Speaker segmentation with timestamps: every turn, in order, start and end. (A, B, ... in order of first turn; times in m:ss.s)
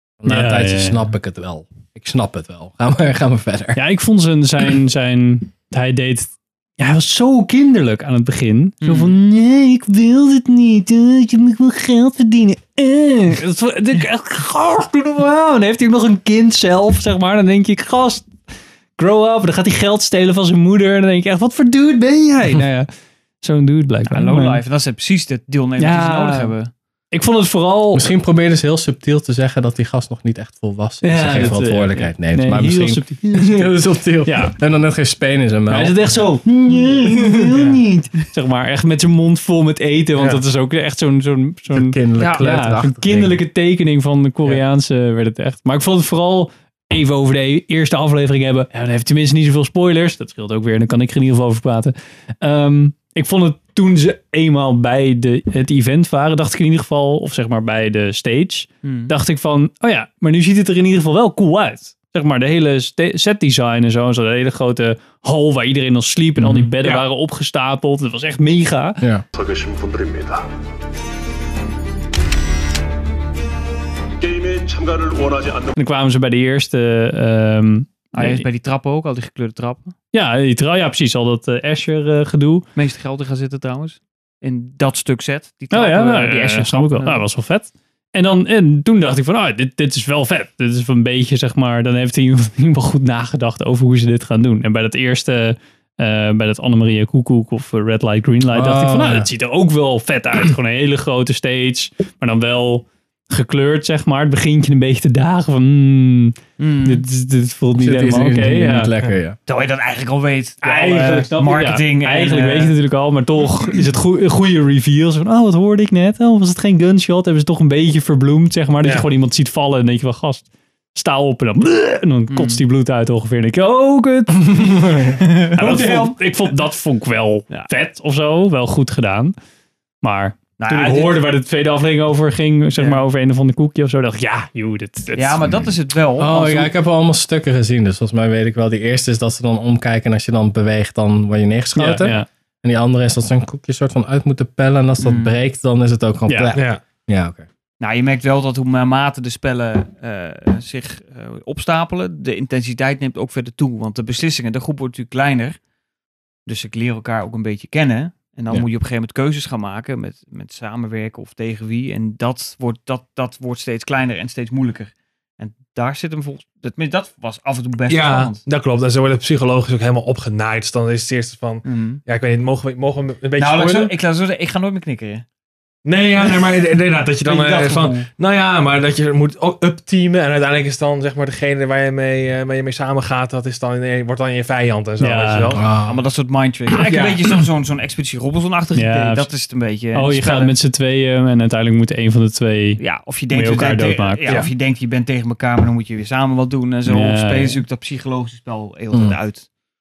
0:00.2-0:03.8 A
0:00.3-0:01.0 B
0:03.8-0:18.3 B
0:08.8-0:09.2 C
0:19.0-0:22.9 B
0:23.4-0:24.6 B
0:24.1-0:26.7 C
0:25.8-0:26.5 B
0:27.1-0:28.1 B
0:27.9-0:36.2 A
0:31.0-0:34.6 B
0:35.7-1:09.0 B
0:37.1-0:37.3 A
0:41.7-0:43.4 A
0:42.2-0:42.4 C
0:58.8-0:59.1 C
1:06.4-1:06.7 A
1:09.4-1:10.4 D
1:14.2-1:15.7 D
1:15.8-1:18.4 B
1:18.1-1:20.0 C
1:20.1-1:22.6 B
1:22.8-1:27.2 C
1:25.7-1:48.9 B
1:38.5-1:39.3 A
1:46.6-1:47.0 C
1:47.8-1:49.4 A
1:49.5-1:52.8 C
1:50.6-2:09.4 B
2:02.3-2:02.6 C
2:05.4-2:06.2 C
2:10.0-2:15.5 B
2:10.6-2:11.2 C
2:15.2-2:16.7 C
2:16.2-2:27.5 A
2:21.8-2:22.3 B
2:25.0-2:25.4 C
2:26.3-2:26.5 B
2:26.5-2:26.8 E
2:27.8-2:35.6 C
2:36.5-2:48.4 C
2:47.9-2:54.0 E
2:51.6-2:52.0 C
2:53.4-2:55.2 C
2:55.8-3:05.7 E
2:57.2-2:58.1 C
3:05.0-3:05.6 B
3:05.6-3:06.0 A
3:05.9-3:10.5 C
3:06.9-3:07.2 E
3:08.8-3:09.3 B
3:09.9-3:14.4 B
3:12.8-3:19.5 C
3:14.3-3:14.5 E
3:16.9-3:17.6 B